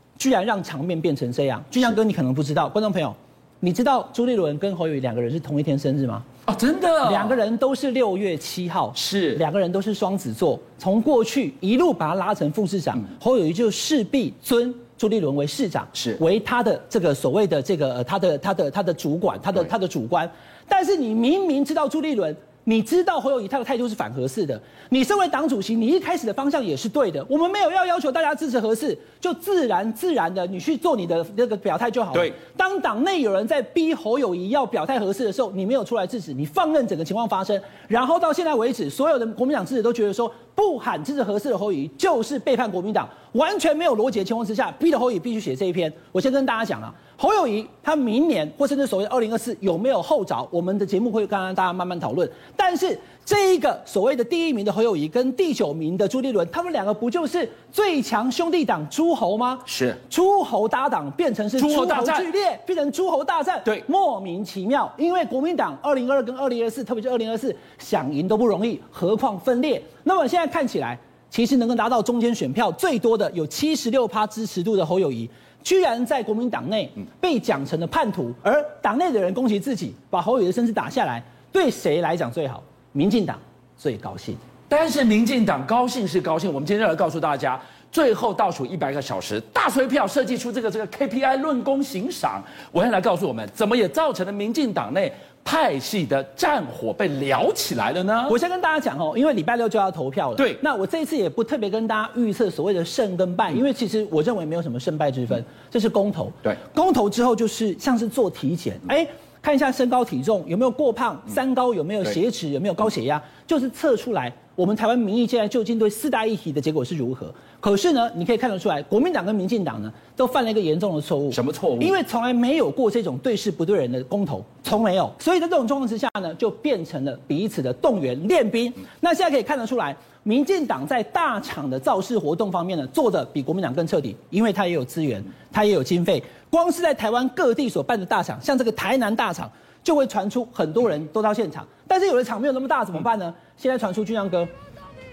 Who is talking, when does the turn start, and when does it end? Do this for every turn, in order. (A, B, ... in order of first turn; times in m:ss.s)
0:00.2-0:06.2 A
0:06.5-0:07.4 B
0:07.0-1:24.4 A
0:09.0-0:09.4 B
0:59.7-1:00.0 B
1:01.6-1:02.3 B
1:24.7-1:38.4 B
1:38.3-2:24.5 A
2:01.3-2:01.9 B